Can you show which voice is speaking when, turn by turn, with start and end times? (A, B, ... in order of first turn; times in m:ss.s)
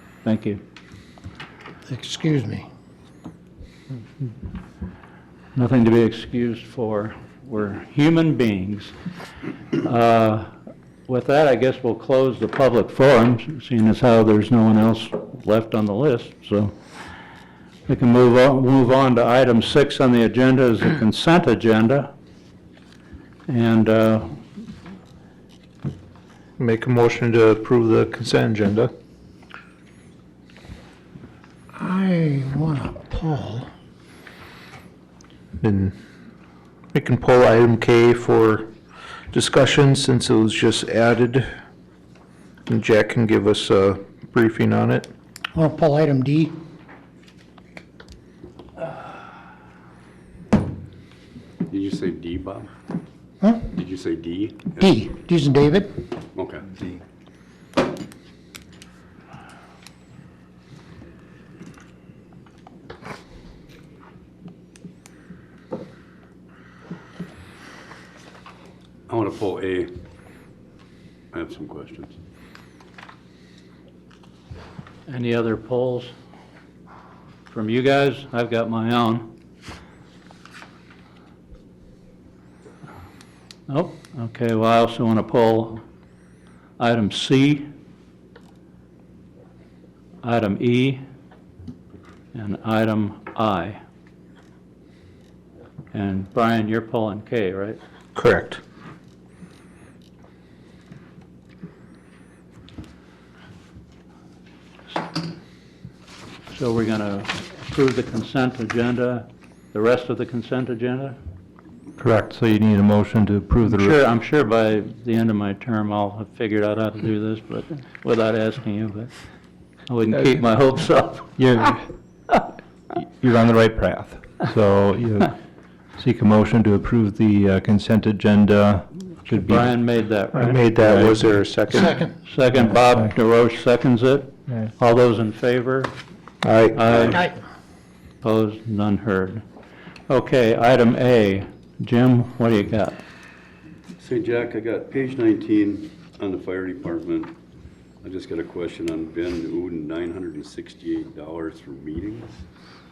0:00.2-0:00.6 A
0:01.9-0:02.7 B
0:05.5-0:08.9 A
0:09.8-0:10.5 A
0:11.1-0:16.8 A
0:17.9-0:22.1 A
0:23.5-0:24.3 A
0:26.6-0:28.9 C
0:31.7-0:33.7 B
0:35.6-0:36.0 C
0:36.9-0:38.7 C
0:39.3-0:41.5 C
0:42.7-0:45.1 C
0:45.5-0:46.6 B
0:51.7-0:52.7 D
0:53.7-0:54.9 D
0:54.8-0:55.9 B
0:56.3-0:56.7 D
1:09.1-1:09.9 D
1:11.3-1:12.1 D
1:15.1-1:16.1 A
1:17.5-1:19.3 A
1:23.7-1:25.8 A
1:26.8-1:27.7 A
1:30.2-1:31.0 A
1:32.3-1:33.8 A
1:35.9-1:37.8 A
1:38.1-1:38.6 C
1:46.5-1:51.2 A
1:52.0-1:54.0 E
1:53.7-1:59.1 A
1:59.9-2:01.3 A
2:01.4-2:02.4 E
2:02.9-2:05.4 E
2:05.9-2:09.8 E
2:09.3-2:11.1 A
2:10.4-2:11.2 E
2:10.4-2:12.0 C
2:11.7-2:12.1 B
2:12.2-2:15.9 A
2:12.5-2:13.1 E
2:16.4-2:17.1 C
2:16.7-2:17.3 A
2:16.9-2:17.2 D
2:18.2-2:19.4 A
2:20.1-2:23.0 A
2:24.0-2:27.3 D
2:28.0-2:32.4 D